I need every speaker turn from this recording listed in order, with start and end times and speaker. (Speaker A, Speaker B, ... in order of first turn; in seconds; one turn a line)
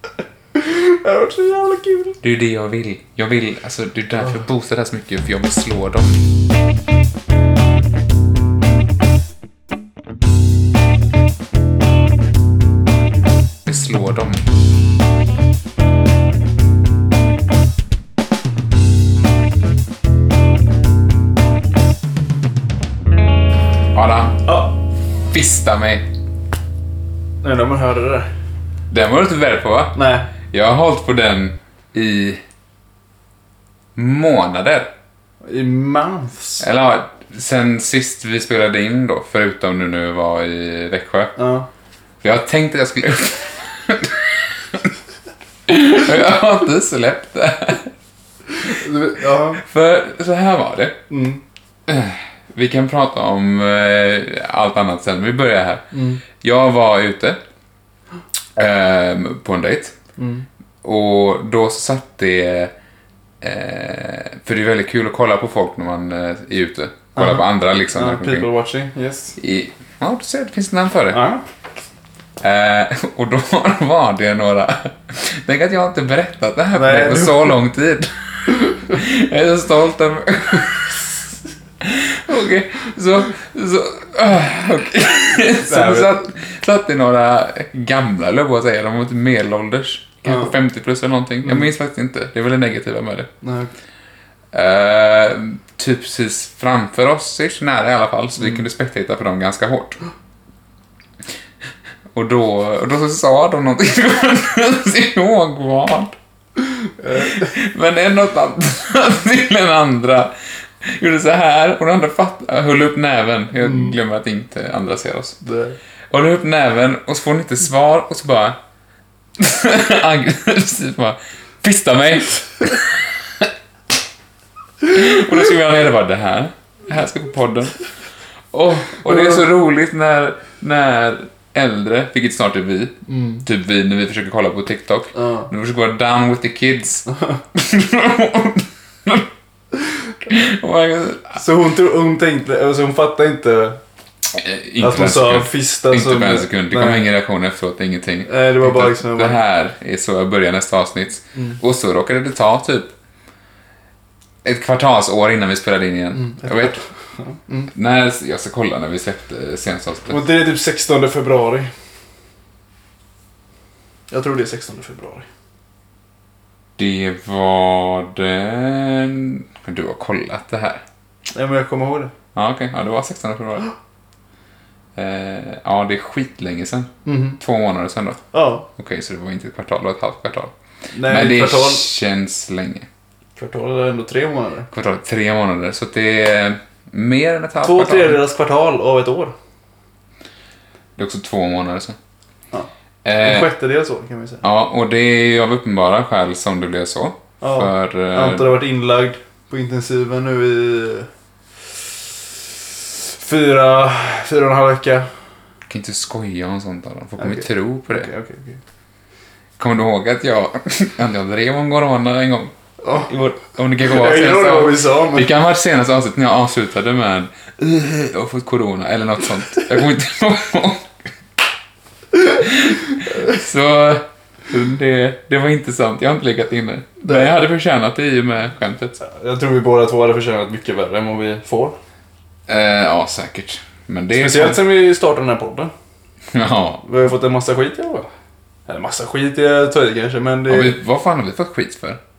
Speaker A: 0.5-2.2
Speaker B: 2.2-6.2
Speaker B: 13.6-14.4
Speaker B: 23.9-24.5
Speaker A: 24.5-24.7
Speaker B: 25.3-26.1
Speaker A: 27.4-28.3
Speaker B: 28.9-32.4
Speaker A: 29.9-30.3
Speaker B: 34.0-34.9
Speaker A: 35.4-36.6
Speaker B: 36.6-41.4
Speaker A: 41.4-41.7
Speaker B: 42.2-44.9
Speaker B: 45.7-47.9
Speaker A: 48.6-49.6
Speaker B: 49.5-51.0
Speaker A: 51.1-51.4
Speaker B: 51.9-57.4
Speaker A: 55.9-56.2
Speaker B: 58.5-60.0
Speaker A: 60.2-60.5
Speaker B: 60.8-62.7
Speaker B: 63.4-68.5
Speaker A: 67.2-69.4
Speaker B: 69.4-71.2
Speaker A: 71.1-71.4
Speaker B: 72.4-81.1
Speaker A: 76.7-77.5
Speaker B: 81.8-93.3
Speaker A: 85.6-86.2
Speaker A: 90.2-90.5
Speaker A: 93.4-93.7
Speaker B: 94.5-100.0
Speaker B: 102.1-106.2
Speaker A: 107.0-107.4
Speaker B: 107.1-115.4
Speaker A: 115.4-115.8
Speaker B: 116.1-118.6
Speaker B: 119.4-123.5
Speaker B: 124.8-127.8
Speaker B: 128.5-139.3
Speaker A: 133.1-133.4
Speaker A: 135.1-135.5
Speaker A: 137.1-137.3
Speaker B: 140.2-141.4
Speaker A: 141.3-143.8
Speaker B: 144.3-152.9
Speaker A: 144.8-147.1
Speaker A: 148.2-149.4
Speaker B: 154.4-156.8
Speaker A: 156.1-157.7
Speaker B: 157.7-160.2
Speaker A: 160.1-161.7
Speaker A: 164.1-165.3
Speaker B: 166.8-170.8
Speaker A: 171.3-172.1
Speaker B: 172.3-173.7
Speaker B: 174.9-178.2
Speaker A: 177.0-177.4
Speaker A: 178.3-178.7
Speaker B: 178.8-182.9
Speaker A: 180.9-181.9
Speaker A: 183.4-184.7
Speaker B: 184.7-188.2
Speaker A: 187.6-189.3
Speaker B: 191.0-192.0
Speaker B: 193.0-193.5
Speaker A: 193.2-194.4
Speaker B: 194.4-198.6
Speaker A: 197.4-201.1
Speaker A: 203.0-205.1
Speaker B: 205.7-208.1
Speaker A: 207.2-208.6
Speaker B: 209.6-220.9
Speaker A: 212.8-213.1
Speaker A: 213.8-215.3
Speaker B: 222.3-229.0
Speaker A: 229.0-231.8
Speaker B: 232.5-234.6
Speaker A: 234.1-235.7
Speaker B: 236.3-236.8
Speaker A: 236.8-238.1
Speaker A: 238.7-240.8
Speaker B: 240.5-242.0